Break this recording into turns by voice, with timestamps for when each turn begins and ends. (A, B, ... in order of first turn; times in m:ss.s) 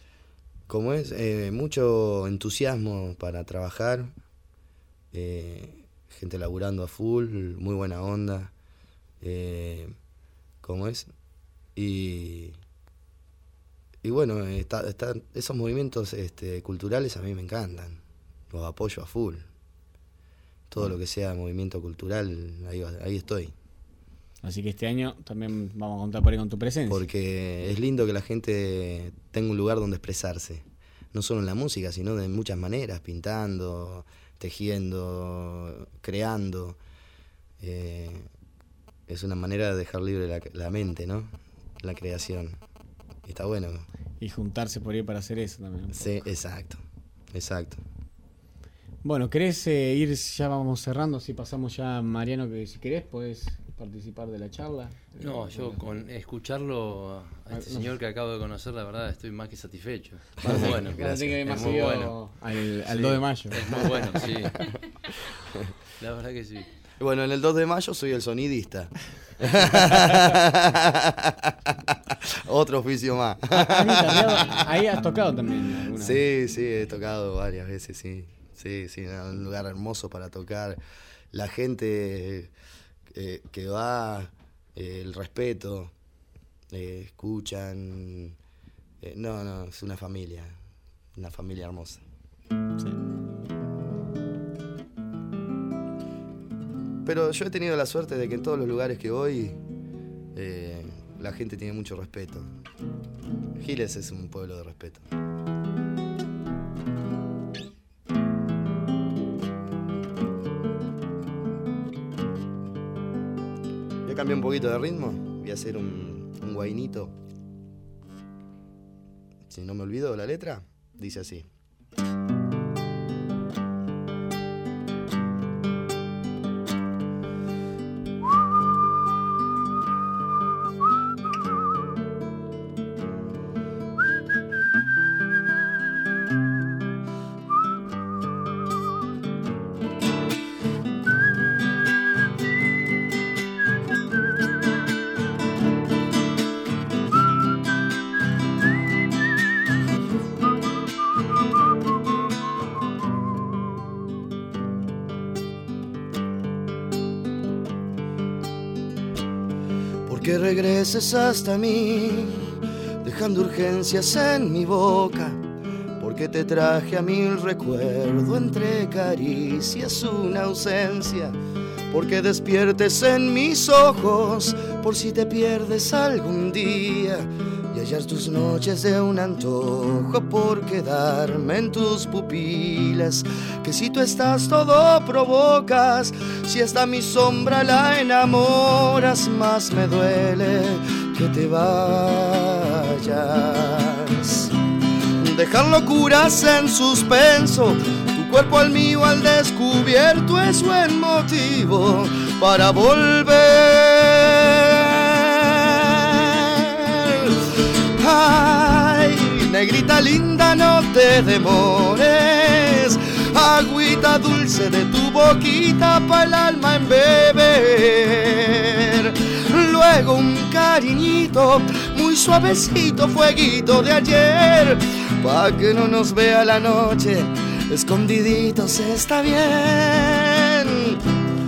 0:00.7-0:04.1 A
0:05.1-0:08.5 A
0:09.2-0:09.9 A
0:10.6-0:11.1 A
0:11.8-0:12.6 A
0:14.0-0:19.4 A
0:20.7-0:23.5 A
0:24.4-0:27.0 B
0:26.9-0:36.8 A
0:37.6-0:38.3 A
0:39.1-0:42.6 A
0:43.2-0:43.9 A
0:44.2-0:46.2 B
0:45.9-0:47.8 A
0:49.0-0:55.8 B
0:55.2-1:02.1 C
0:57.5-0:57.9 B
1:00.4-1:01.8 A
1:00.4-1:04.7 B
1:02.9-1:04.7 C
1:06.0-1:06.7 C
1:07.0-1:14.8 A
1:13.5-1:16.2 B
1:16.0-1:20.8 A
1:21.3-1:22.5 A
1:23.1-1:25.9 A
1:26.7-1:28.4 A
1:29.0-1:30.6 A
1:31.1-1:32.0 A
1:37.0-1:39.6 A
1:40.3-1:42.5 A
1:43.6-1:45.0 A
1:54.0-1:57.1 A
1:59.5-2:01.5 A
2:40.0-2:45.4 A
2:46.0-2:51.4 A
2:51.9-3:14.5 A
3:15.2-3:51.0 A